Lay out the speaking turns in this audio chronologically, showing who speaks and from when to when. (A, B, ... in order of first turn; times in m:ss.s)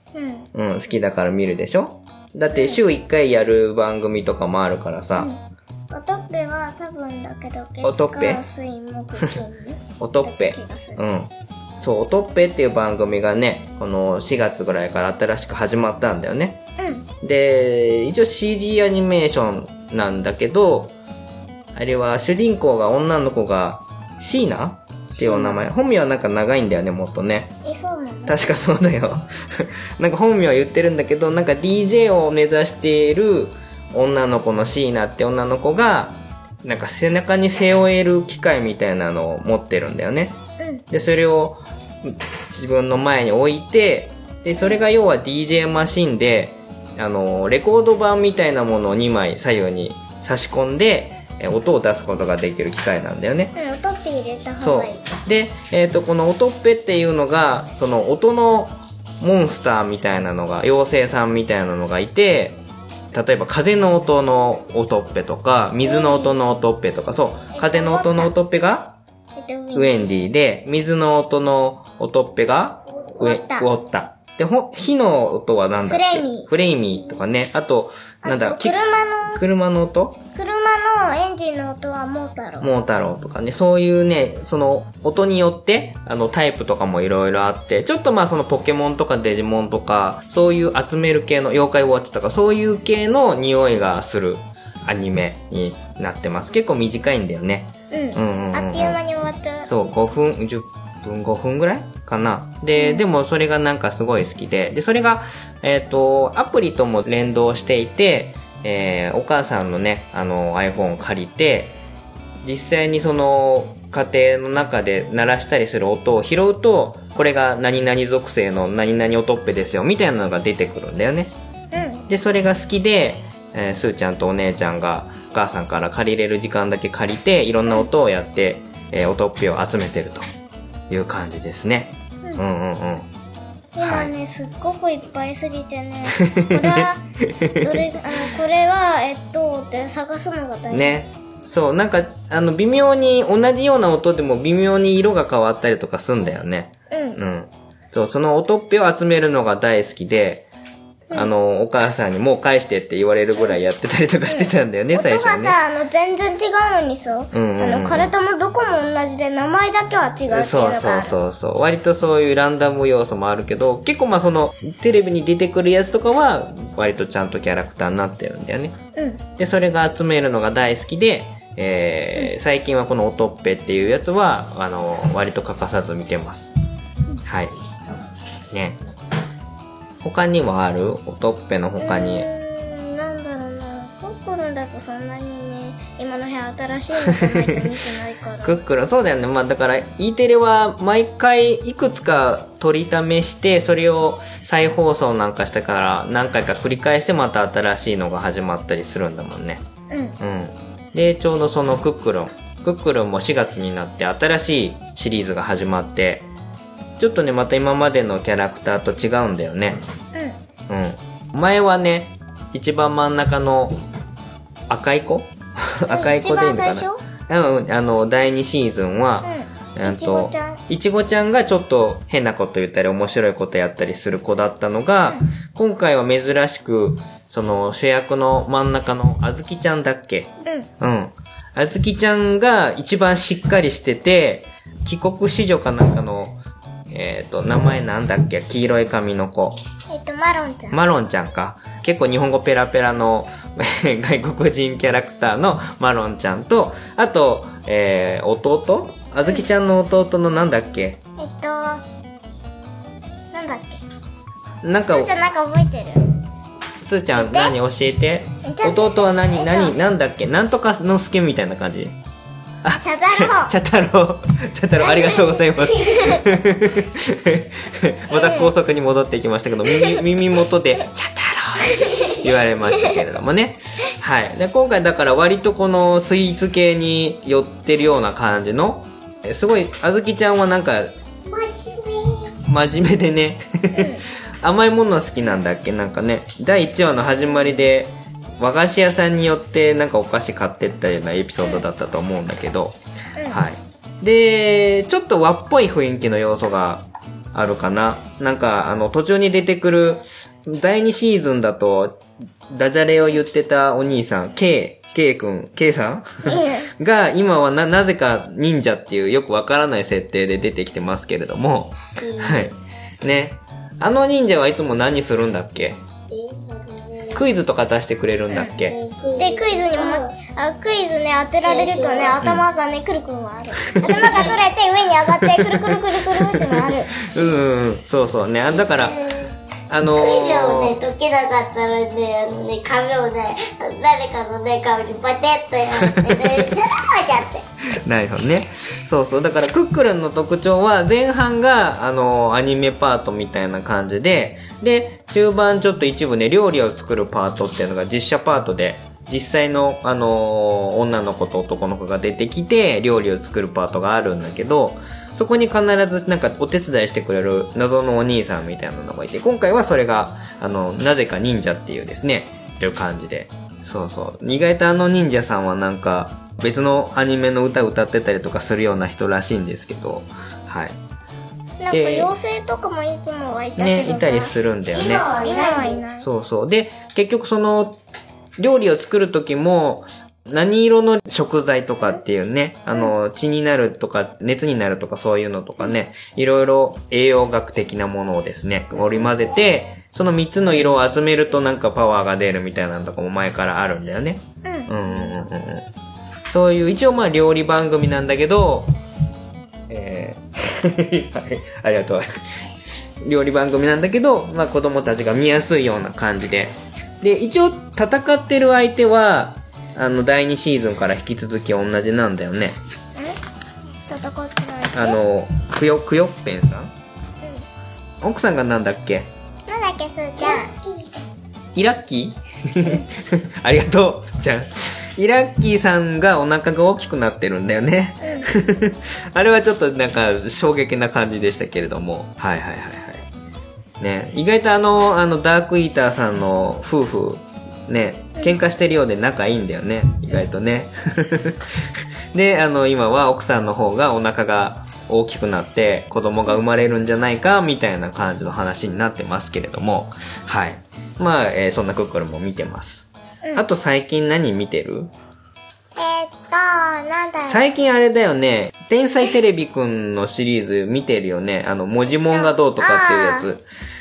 0:00.1-0:00.5 A
0:00.5-0:05.3 B
0:02.5-0:02.8 A
0:05.9-0:11.0 A
0:07.8-0:08.4 B
0:10.0-0:16.6 B
0:16.8-0:17.1 A
0:17.2-0:20.9 B
0:21.7-0:27.6 B
0:25.1-0:25.6 A
0:27.6-0:28.4 A
0:28.3-0:40.4 B
0:40.6-0:40.8 A
0:40.9-0:53.5 B
0:53.5-0:55.0 A
0:54.6-1:02.6 B
1:03.1-1:09.0 B
1:05.8-1:06.4 A
1:07.5-1:08.3 A
1:09.4-1:10.1 A
1:09.7-1:18.8 B
1:13.2-1:13.7 A
1:15.9-1:16.5 A
1:18.2-1:19.4 A
1:19.3-1:20.2 B
1:20.3-1:22.7 A
1:22.6-1:39.0 B
1:37.9-1:39.7 A
1:39.6-1:51.8 B
1:42.7-1:43.0 A
1:52.4-2:01.3 B
2:01.7-2:02.0 A
2:02.1-2:10.3 B
2:10.9-2:13.1 B
2:13.7-2:17.0 A
2:13.8-2:14.1 B
2:16.2-2:18.0 B
2:17.6-2:21.0 A
2:20.7-2:30.4 B
2:26.9-2:27.2 A
2:31.1-2:35.6 B
2:34.3-2:41.1 A
2:37.3-2:38.1 B
2:40.3-2:48.8 B
2:48.9-2:49.2 A
2:49.4-2:56.5 B
2:57.2-2:57.5 B
2:58.5-2:58.8 B
3:00.0-3:02.3 B
3:01.8-3:08.5 A
3:07.0-3:07.7 B
3:08.4-3:19.6 B
3:19.9-3:20.2 A
3:20.2-3:26.3 B
3:27.0-3:29.8 B
3:30.1-3:30.4 A
3:30.7-3:33.8 B
3:34.7-3:56.4 B
3:35.9-3:37.0 A
3:39.2-3:40.6 A
3:56.9-3:59.6 B
3:59.9-4:00.8 A
4:00.7-4:11.0 B
4:11.2-4:11.8 A
4:13.3-4:13.8 A
4:14.6-4:15.2 B
4:14.9-4:16.2 A
4:16.8-4:22.0 B
4:17.1-4:17.5 A
4:18.4-4:19.8 A
4:22.6-4:40.9 B
4:22.7-4:23.5 A
4:24.8-4:26.2 A
4:28.1-4:28.5 A
4:31.6-4:32.2 A
4:41.3-4:42.3 A
4:42.4-4:52.8 B
4:43.7-4:44.0 A
4:53.2-4:53.4 A
4:53.3-5:15.8 B
5:06.2-5:06.7 A
5:12.0-5:12.5 C
5:16.1-5:17.2 C
5:17.1-5:18.7 B
5:18.6-5:20.1 C
5:19.2-5:27.0 A
5:21.4-5:22.2 C
5:22.2-5:22.4 B
5:23.6-5:24.4 B
5:25.0-5:29.0 B
5:28.4-5:29.3 C
5:29.7-5:30.8 B
5:29.9-5:37.4 C
5:35.8-5:36.6 B
5:37.7-6:10.8 B
6:11.6-6:14.3 A
6:11.7-6:12.1 B
6:13.6-6:15.1 B
6:14.7-6:15.8 C
6:15.2-6:16.1 A
6:16.0-6:17.8 B
6:18.4-6:35.7 B
6:34.4-6:34.7 A
6:36.3-6:38.7 B
6:39.7-6:42.4 B
6:43.0-6:52.6 B
6:53.9-6:55.0 A
6:54.7-6:56.7 B
6:58.0-6:59.1 B
6:59.5-7:01.0 A
7:01.5-7:13.0 B
7:08.0-7:08.3 A
7:13.8-7:34.9 B
7:35.8-7:37.4 A
7:37.2-7:43.4 B
7:42.1-7:43.3 A